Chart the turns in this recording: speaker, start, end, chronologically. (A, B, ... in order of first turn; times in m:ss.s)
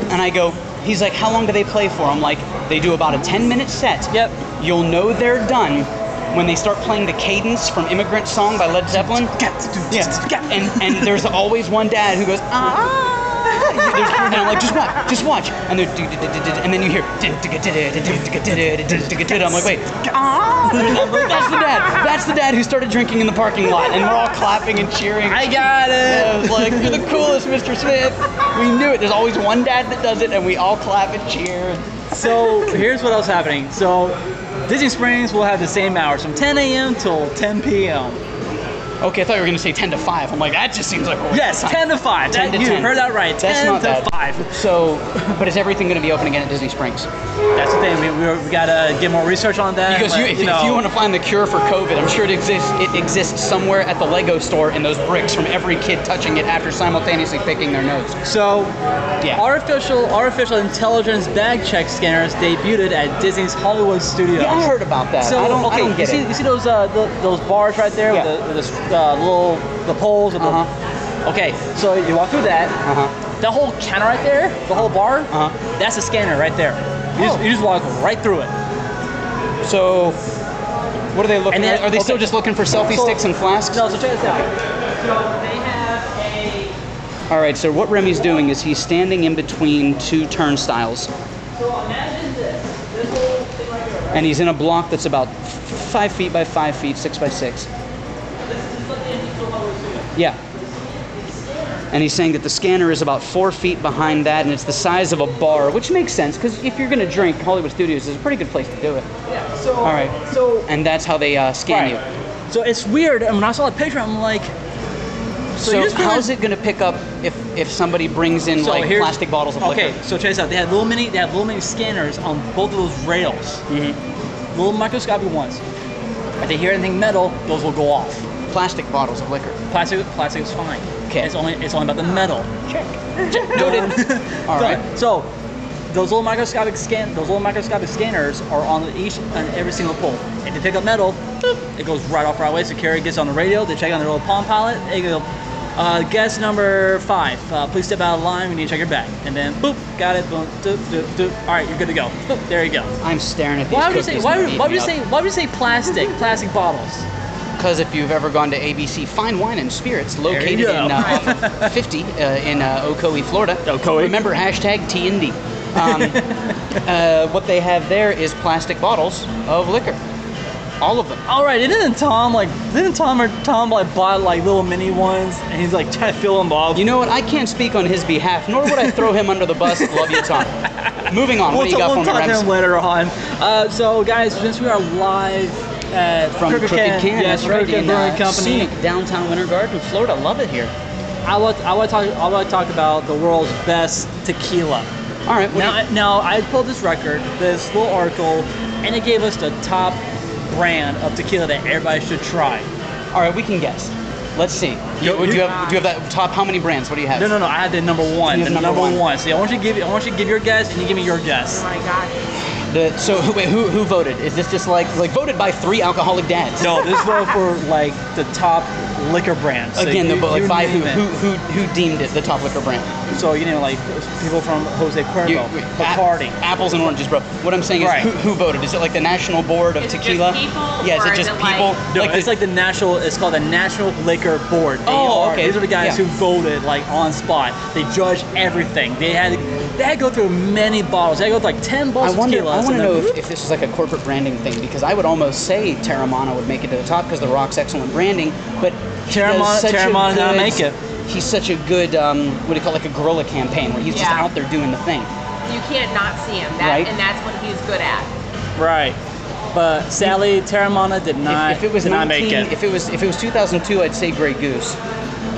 0:00.1-0:09.3 A
0:04.1-0:04.4 B
0:08.9-0:11.2 B
0:09.9-0:32.5 A
0:13.8-0:14.3 B
0:19.0-0:19.7 B
0:20.6-0:21.3 B
0:25.3-0:27.0 B
0:32.1-0:38.2 B
0:39.0-0:47.1 A
0:41.3-0:44.6 B
0:47.6-0:50.8 B
0:49.9-0:58.2 A
0:58.2-0:58.7 B
0:59.3-1:10.6 B
1:04.4-1:06.3 A
1:10.4-1:10.7 A
1:11.2-1:12.8 B
1:12.8-1:13.1 A
1:13.4-1:18.5 B
1:15.3-1:15.6 A
1:17.2-1:17.4 A
1:19.6-1:20.2 A
1:21.1-1:24.5 A
1:21.5-1:22.3 B
1:22.8-1:26.8 B
1:27.3-1:31.1 A
1:31.6-1:34.3 B
1:34.1-1:37.7 A
1:38.5-1:41.9 B
1:41.9-1:49.1 A
1:49.3-1:50.7 B
1:49.8-1:52.0 A
1:51.7-1:52.0 B
1:52.5-1:54.5 B
1:55.6-2:00.0 A
1:55.6-1:56.3 B
1:58.6-2:03.6 B
2:03.7-2:04.0 A
2:04.5-2:05.6 B
2:06.4-2:08.2 B
2:08.5-2:09.6 A
2:09.7-2:12.5 B
2:12.7-2:14.8 A
2:13.2-2:15.3 B
2:15.9-2:32.9 B
2:33.0-2:34.9 A
2:33.7-2:37.1 B
2:37.6-2:46.2 A
2:40.3-2:41.7 B
2:41.0-2:41.3 C
2:43.6-2:44.2 B
2:45.8-2:46.7 B
2:46.8-2:50.0 A
2:50.8-2:51.2 A
2:51.3-2:56.9 B
2:56.7-3:00.5 A
2:58.7-2:59.0 B
2:59.7-3:08.7 B
3:01.1-3:02.5 A
3:06.4-3:10.7 A
3:11.2-3:14.9 B
3:15.3-3:15.8 A
3:15.5-3:22.7 B
3:23.1-3:27.4 A
3:25.0-3:25.6 B
3:25.2-3:25.8 C
3:27.2-3:31.6 B
3:28.2-3:29.0 A
3:31.5-3:32.2 C
3:32.6-3:36.8 A
3:36.6-3:41.0 B
3:39.8-3:43.1 A
3:43.1-3:46.4 B
3:45.2-3:52.4 A
3:47.8-3:48.1 B
3:49.8-3:51.8 C
3:51.9-4:03.2 B
3:54.9-3:56.0 A
4:02.0-4:15.1 A
4:09.1-4:10.8 B
4:13.9-4:14.3 C
4:15.5-4:18.1 C
4:16.6-4:16.9 A
4:18.6-4:19.0 B
4:19.5-4:22.5 B
4:21.3-4:24.8 A